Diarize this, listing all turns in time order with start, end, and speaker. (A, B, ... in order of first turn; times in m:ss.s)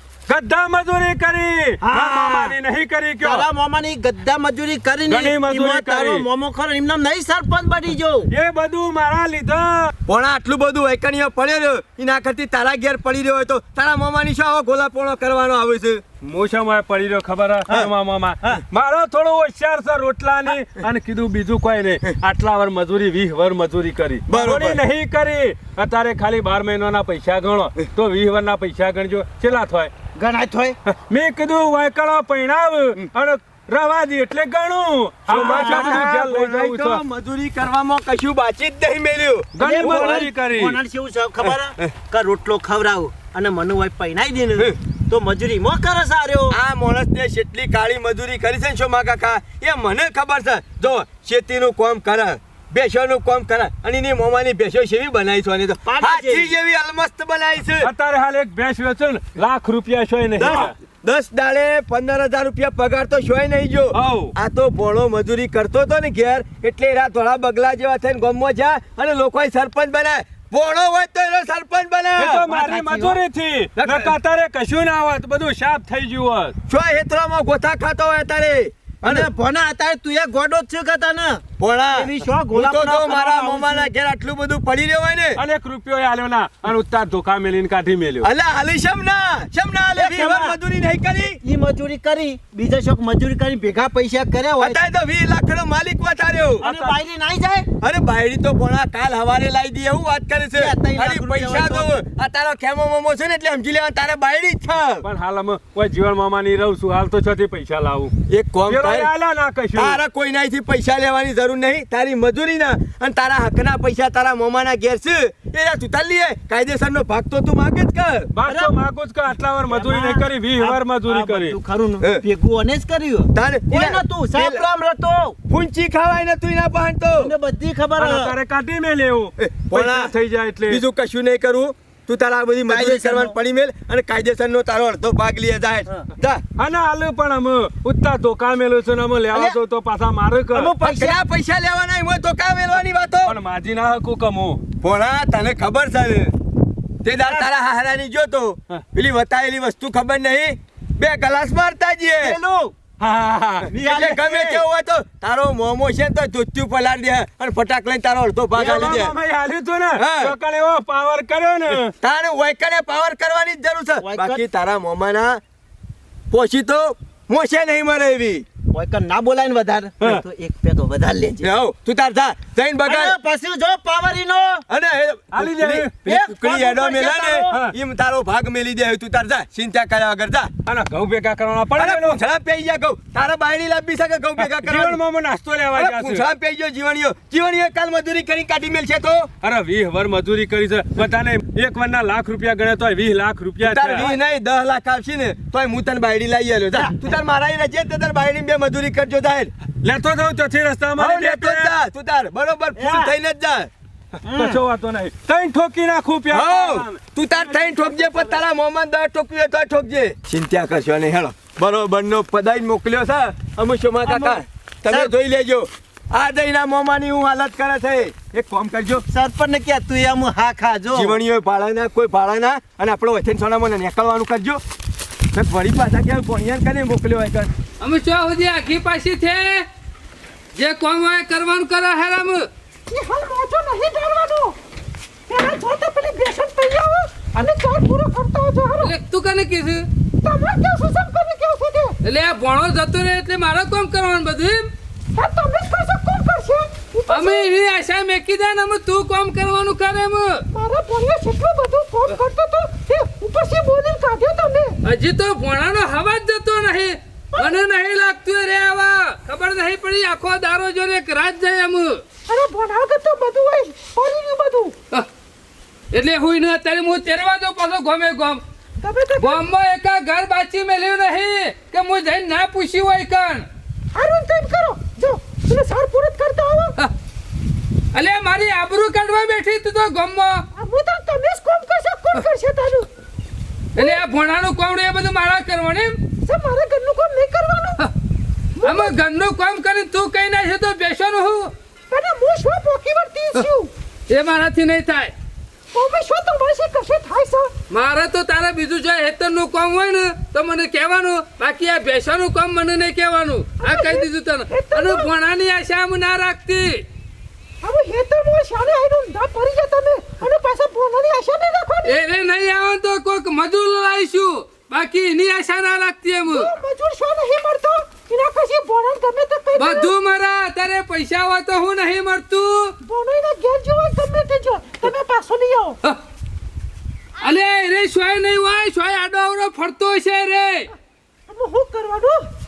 0:00.3-0:03.5 A
0:01.8-0:02.6 B
0:03.2-0:08.3 B
0:05.1-0:06.3 A
0:08.3-0:09.9 A
0:10.1-0:16.0 C
0:16.2-0:29.9 A
0:24.3-0:24.8 C
0:30.2-0:30.8 B
0:30.9-0:37.0 A
0:35.3-0:40.3 C
0:35.4-0:36.1 B
0:39.6-0:40.8 A
0:39.6-0:46.6 B
0:41.4-0:41.9 C
0:46.5-0:57.9 C
0:55.9-0:56.5 B
0:57.8-1:00.7 A
1:00.4-1:12.5 C
1:03.9-1:04.3 A
1:12.2-1:16.6 A
1:12.4-1:13.2 B
1:13.8-1:14.1 C
1:16.7-1:19.3 C
1:19.0-1:23.9 B
1:21.6-1:25.4 C
1:25.4-1:28.3 A
1:28.2-1:31.4 C
1:29.9-1:30.6 B
1:31.4-1:34.8 B
1:34.6-1:36.8 C
1:36.6-1:37.7 B
1:37.8-1:45.0 C
1:40.6-1:41.9 B
1:45.0-1:48.1 A
1:48.3-1:49.1 C
1:48.7-1:50.0 A
1:49.8-1:58.3 C
1:58.3-2:01.6 A
1:58.5-1:58.8 B
1:59.7-2:05.4 B
2:03.3-2:04.7 C
2:05.5-2:07.3 C
2:07.2-2:08.4 B
2:08.0-2:10.8 A
2:09.4-2:10.1 C
2:10.7-2:16.4 C
2:12.7-2:13.4 B
2:16.6-2:20.8 A
2:19.3-2:19.6 B
2:20.5-2:21.2 B
2:20.8-2:23.4 C
2:23.2-2:24.6 A
2:24.8-2:26.4 C
2:27.0-2:32.4 C
2:27.2-2:27.5 A
2:32.2-2:32.8 B
2:33.0-2:33.7 A
2:33.7-2:34.6 B
2:33.7-2:39.2 C
2:38.5-2:41.9 A
2:40.0-2:40.3 C
2:42.0-2:45.4 C
2:44.0-2:44.4 B
2:46.3-2:48.4 C
2:48.7-2:51.5 B
2:51.4-2:53.2 C
2:52.8-2:54.6 B
2:54.7-3:00.5 C
2:55.3-2:56.0 A
2:56.0-2:57.7 B
2:57.5-2:57.8 A
3:00.7-3:02.2 A
3:01.8-3:05.0 C
3:04.4-3:06.2 A
3:05.8-3:09.3 C
3:09.4-3:14.1 A
3:13.6-3:19.5 C
3:16.8-3:17.1 B
3:19.8-3:21.7 A
3:21.0-3:23.7 C
3:22.8-3:23.1 B
3:24.2-3:28.4 A
3:24.2-3:24.6 B
3:26.3-3:39.1 C
3:34.0-3:35.1 B
3:39.1-3:41.2 B
3:40.9-3:44.6 C
3:45.3-3:47.5 C
3:47.8-3:49.7 D
3:50.6-3:52.5 D
3:52.9-3:54.6 E
3:55.3-3:58.9 E
3:58.8-3:59.9 D
4:00.2-4:02.0 E
4:02.0-4:04.7 D
4:05.1-4:07.5 E
4:07.1-4:10.4 D
4:10.5-4:14.8 E
4:14.8-4:22.0 D
4:17.4-4:17.6 E
4:22.3-4:24.8 E
4:25.9-4:28.4 D
4:28.8-4:29.4 E
4:29.2-4:33.5 D
4:33.9-4:36.8 E
4:37.9-4:40.4 D
4:40.6-4:42.9 E
4:43.8-4:46.0 D
4:46.2-4:47.9 E
4:48.6-4:49.0 E
4:48.6-4:51.5 D
4:51.9-4:53.7 E
4:54.1-4:55.1 D
4:55.7-4:57.5 E
4:57.7-5:06.8 D
5:03.6-5:05.1 E
5:07.6-5:12.0 E
5:11.8-5:16.5 D
5:16.3-5:19.9 E
5:19.6-5:22.8 D
5:22.8-5:25.8 E
5:27.2-5:30.7 D
5:31.3-5:32.3 E